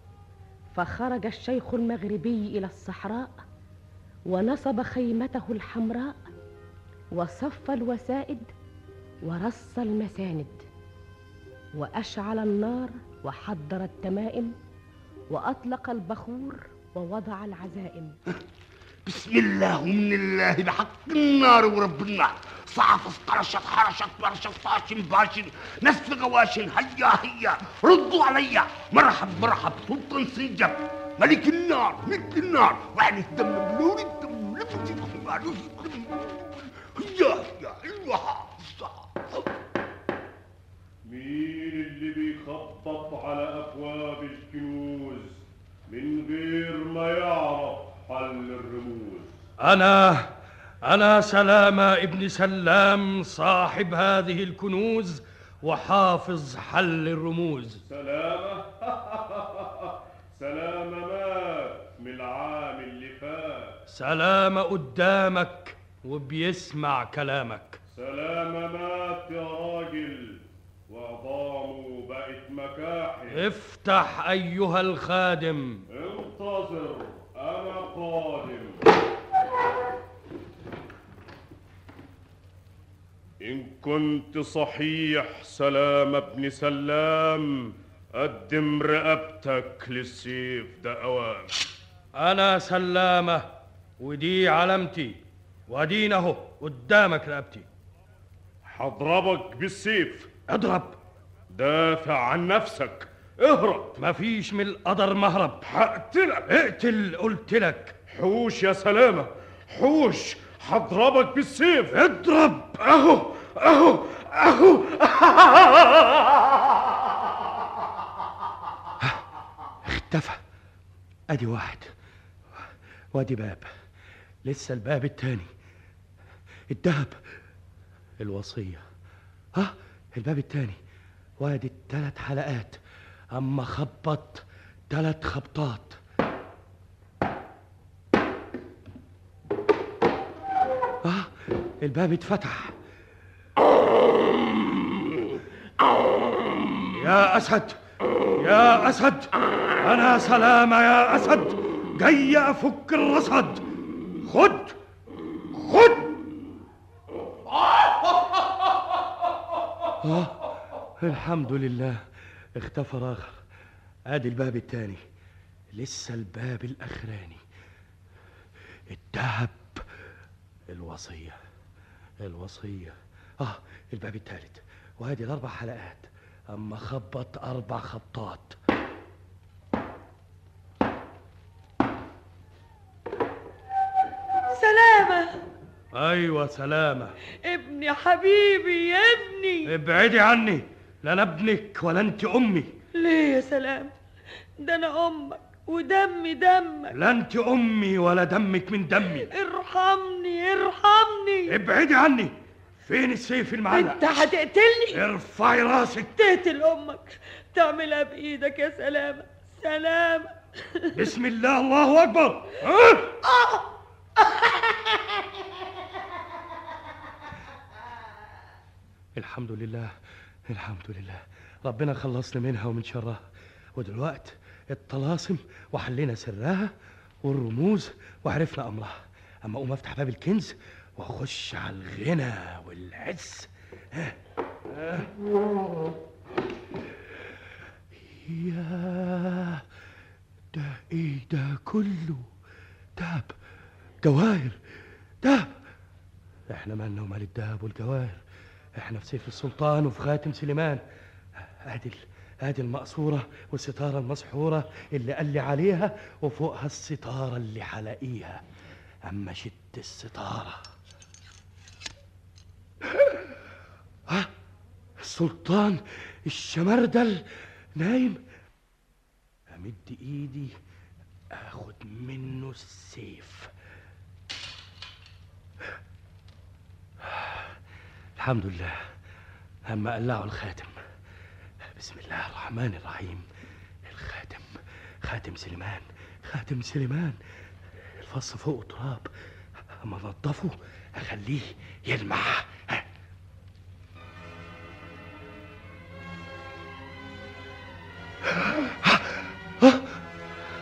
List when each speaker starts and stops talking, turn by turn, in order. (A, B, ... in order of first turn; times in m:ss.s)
0:00.8-0:03.3 A
0:04.3-0:06.2 A
0:07.1-0:08.5 A
0:09.2-0:10.6 A
0:11.8-0:14.6 A
0:15.3-0:18.2 A
0:19.1-0:39.2 B
0:41.1-0:49.4 C
0:49.6-0:50.3 D
0:50.8-0:57.8 D
0:57.9-1:03.8 C
1:03.9-1:07.8 D
1:08.0-1:13.4 C
1:13.3-1:15.8 D
1:15.9-1:18.8 C
1:23.4-1:31.5 C
1:32.2-1:33.5 D
1:34.0-1:35.2 D
1:35.7-1:37.7 D
1:38.7-1:40.3 C
1:40.5-1:41.0 D
1:41.5-1:43.9 C
1:44.0-1:45.6 D
1:45.7-1:46.5 C
1:46.5-1:48.0 D
1:48.1-1:52.0 C
1:52.0-1:52.7 D
1:53.0-1:54.2 C
1:59.8-2:00.4 D
2:01.3-2:01.9 D
2:03.1-2:03.7 D
2:04.5-2:05.5 D
2:06.7-2:07.2 D
2:08.2-2:08.8 D
2:09.6-2:10.8 D
2:11.4-2:12.8 D
2:13.3-2:16.0 D
2:21.0-2:21.3 D
2:21.8-2:22.7 D
2:27.0-2:27.8 D
2:28.4-2:33.6 D
2:34.2-2:34.8 D
2:35.6-2:36.1 D
2:40.0-2:40.4 D
2:41.0-2:42.0 D
2:42.6-2:43.4 D
2:44.1-2:45.0 D
2:45.8-2:47.4 D
2:48.9-2:49.8 D
2:50.7-2:51.4 D
2:52.2-2:58.6 D
3:04.5-3:05.3 E
3:05.9-3:07.2 D
3:07.5-3:09.7 E
3:09.7-3:12.7 D
3:13.0-3:13.9 E
3:14.6-3:16.9 E
3:16.9-3:19.3 D
3:19.2-3:21.5 E
3:21.5-3:24.0 D
3:23.8-3:24.8 E
3:24.9-3:26.1 D
3:26.1-3:30.3 E
3:31.0-3:33.1 D
3:39.2-3:39.9 D
3:40.5-3:43.2 D
3:43.8-3:46.7 D
3:47.2-3:54.2 D
3:54.7-3:55.1 D
3:58.1-3:59.6 D
4:00.5-4:02.3 D
4:03.0-4:03.3 D
4:04.0-4:04.6 D
4:05.2-4:05.5 D
4:06.5-4:08.2 D
4:08.8-4:10.8 D
4:11.6-4:18.4 D
4:19.1-4:20.6 D
4:25.0-4:27.2 D
4:27.8-4:28.2 D
4:29.5-4:30.6 D
4:31.3-4:33.5 D
4:38.2-4:38.8 D
4:39.7-4:40.8 D
4:41.8-4:43.2 D
4:43.8-4:47.2 D
4:48.0-4:49.1 D
4:49.8-4:52.8 D
4:58.4-4:59.1 D